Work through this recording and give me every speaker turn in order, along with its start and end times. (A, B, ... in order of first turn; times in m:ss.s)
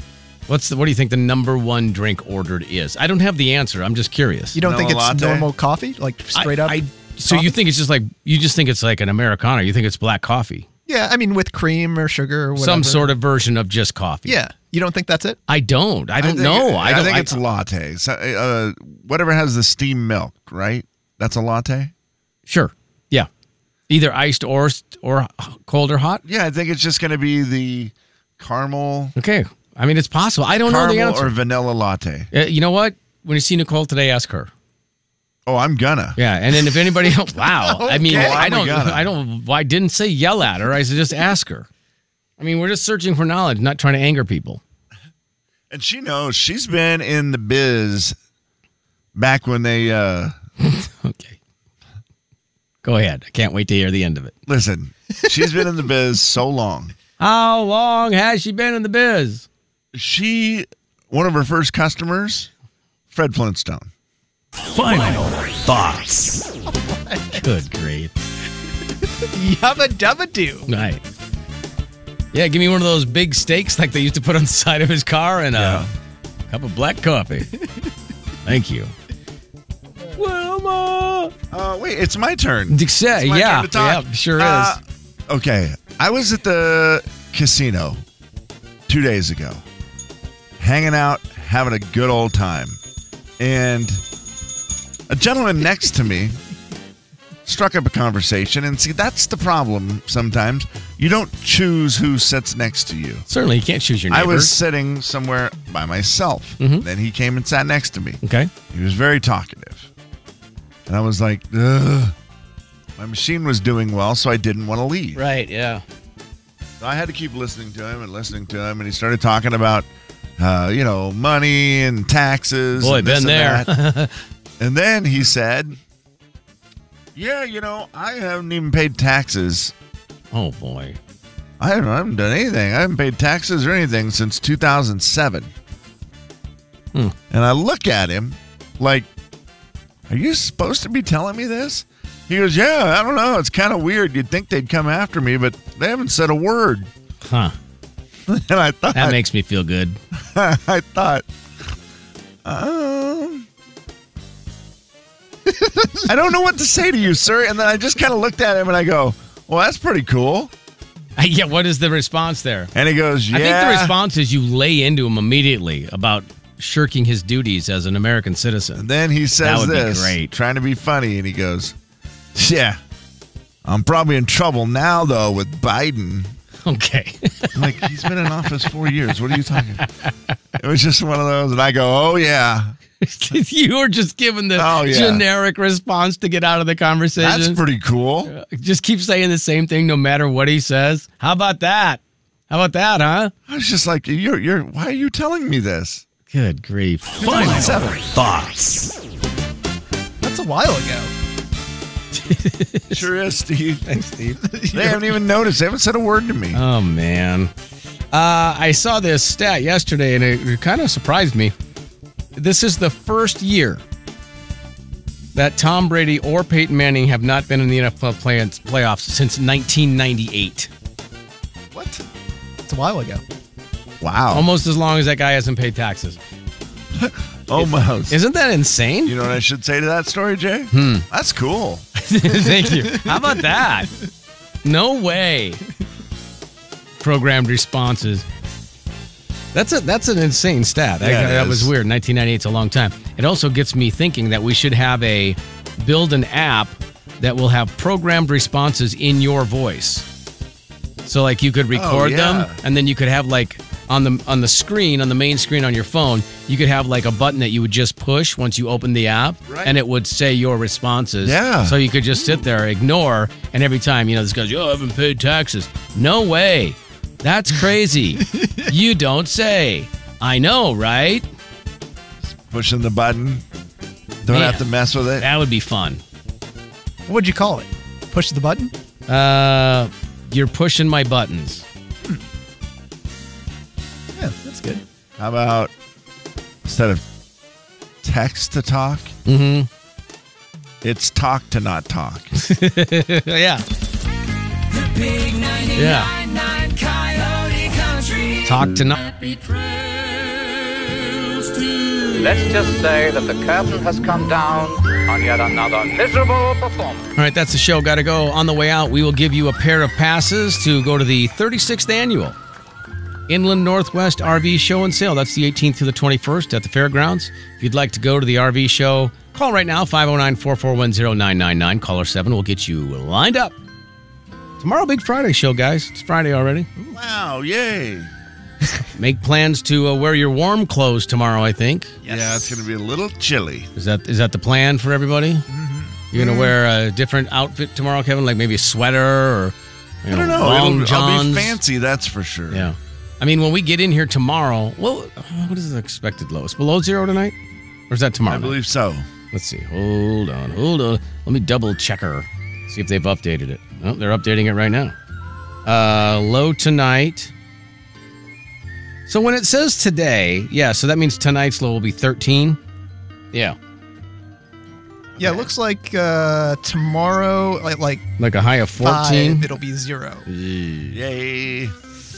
0:00.5-0:04.6 A
0:04.6-0:07.5 B
0:04.6-0:05.5 C
0:06.4-0:10.7 A
0:10.9-0:13.1 B
0:12.6-0:14.4 A
0:14.3-0:15.4 B
0:15.5-0:17.4 A
0:16.2-0:21.9 C
0:22.5-0:23.3 A
0:23.9-0:26.2 A
0:26.2-0:29.2 C
0:29.2-0:31.3 A
0:30.6-0:32.3 C
0:32.3-0:34.5 A
0:35.5-0:36.2 C
0:36.2-0:41.7 A
0:37.4-0:38.5 B
0:38.0-0:39.1 C
0:42.4-0:44.6 A
0:45.7-0:48.2 C
0:49.2-0:50.4 C
0:50.6-0:51.4 A
0:52.8-0:54.4 A
0:54.5-0:56.9 C
0:57.2-0:59.5 A
0:59.9-1:02.5 C
1:03.1-1:03.9 C
1:04.7-1:06.3 D
1:06.7-1:07.6 B
1:07.3-1:08.1 A
1:09.3-1:10.7 B
1:10.7-1:11.0 A
1:12.3-1:15.9 A
1:15.5-1:15.9 C
1:16.5-1:17.5 A
1:18.4-1:18.9 A
1:20.2-1:21.3 A
1:21.5-1:28.0 C
1:22.7-1:24.8 A
1:28.9-1:29.6 C
1:30.6-1:32.8 C
1:33.4-1:34.0 C
1:35.1-1:36.4 C
1:37.5-1:43.3 C
1:43.3-1:44.6 A
1:44.1-1:49.9 C
1:46.6-1:46.8 A
1:48.2-1:48.5 A
1:50.9-1:52.2 C
1:53.0-1:55.2 C
1:55.2-1:55.8 A
1:56.8-2:03.7 C
2:02.8-2:04.1 A
2:04.6-2:05.8 C
2:07.2-2:09.7 C
2:10.3-2:11.0 A
2:11.6-2:15.5 C
2:17.3-2:19.1 C
2:20.1-2:26.9 C
2:27.2-2:27.6 A
2:28.3-2:29.2 C
2:28.9-2:30.0 A
2:30.1-2:31.2 C
2:32.4-2:33.5 C
2:35.6-2:35.9 B
2:36.0-2:40.5 C
2:41.2-2:42.7 A
2:42.7-2:44.0 C
2:43.3-2:48.9 A
2:48.8-2:51.8 C
2:49.4-2:50.3 A
2:52.4-2:52.8 C
2:53.6-2:56.4 C
2:56.6-2:58.0 A
2:57.5-2:59.9 C
2:59.8-3:00.1 A
3:00.6-3:02.7 C
3:03.0-3:07.6 A
3:04.6-3:05.2 C
3:07.2-3:08.3 C
3:08.2-3:13.3 A
3:13.5-3:16.0 C
3:16.3-3:17.8 A
3:17.2-3:18.1 C
3:17.4-3:18.9 D
3:20.2-3:21.1 B
3:22.1-3:23.1 A
3:22.9-3:23.9 C
3:23.8-3:24.4 A
3:24.4-3:25.2 B
3:24.7-3:26.6 C
3:26.5-3:27.5 A
3:28.1-3:31.5 A
3:32.4-3:33.8 A
3:35.4-3:40.7 A
3:41.7-3:42.0 C
3:42.7-3:43.2 B
3:44.0-3:44.5 C
3:44.3-3:46.2 A
3:46.9-3:48.2 C
3:47.6-3:49.2 A
3:49.0-3:51.9 C
3:50.7-3:51.1 A
3:52.0-3:53.9 A
3:52.8-3:53.4 B
3:54.6-3:55.6 A
3:57.0-3:58.2 A
3:59.5-4:10.1 A
4:01.0-4:01.7 C
4:11.0-4:31.3 A
4:11.7-4:12.6 C
4:19.5-4:19.8 C
4:21.2-4:21.8 C
4:28.3-4:28.7 B
4:32.3-4:33.4 C
4:34.2-4:35.3 C
4:34.3-4:36.0 A
4:37.1-4:38.7 B
4:39.1-4:41.6 A
4:44.2-4:44.8 B
4:45.2-4:45.7 C
4:46.6-4:47.0 C
4:48.0-4:49.1 C
4:49.3-4:49.7 A
4:50.8-4:52.4 C
4:52.4-4:53.6 A
4:54.8-4:58.4 E
4:55.7-4:56.1 A
4:58.4-4:59.0 A
4:59.2-4:59.6 E
5:02.0-5:07.1 F
5:07.2-5:12.4 A
5:13.3-5:23.6 A
5:24.6-5:26.7 A
5:26.9-5:28.1 C
5:29.0-5:31.9 A
5:32.0-5:32.6 B
5:32.0-5:33.7 C
5:33.8-5:35.5 A
5:35.6-5:36.2 C
5:35.6-5:36.4 B
5:36.1-5:41.6 A
5:40.1-5:42.7 C
5:42.5-5:47.4 A
5:47.9-5:48.6 A
5:48.3-5:49.1 C
5:49.3-5:54.9 A
5:55.6-5:57.3 A
5:59.1-6:02.6 A
6:05.2-6:05.5 A
6:05.2-6:08.0 B
6:08.2-6:09.5 A
6:08.8-6:10.3 B
6:10.3-6:11.0 A
6:10.9-6:11.7 C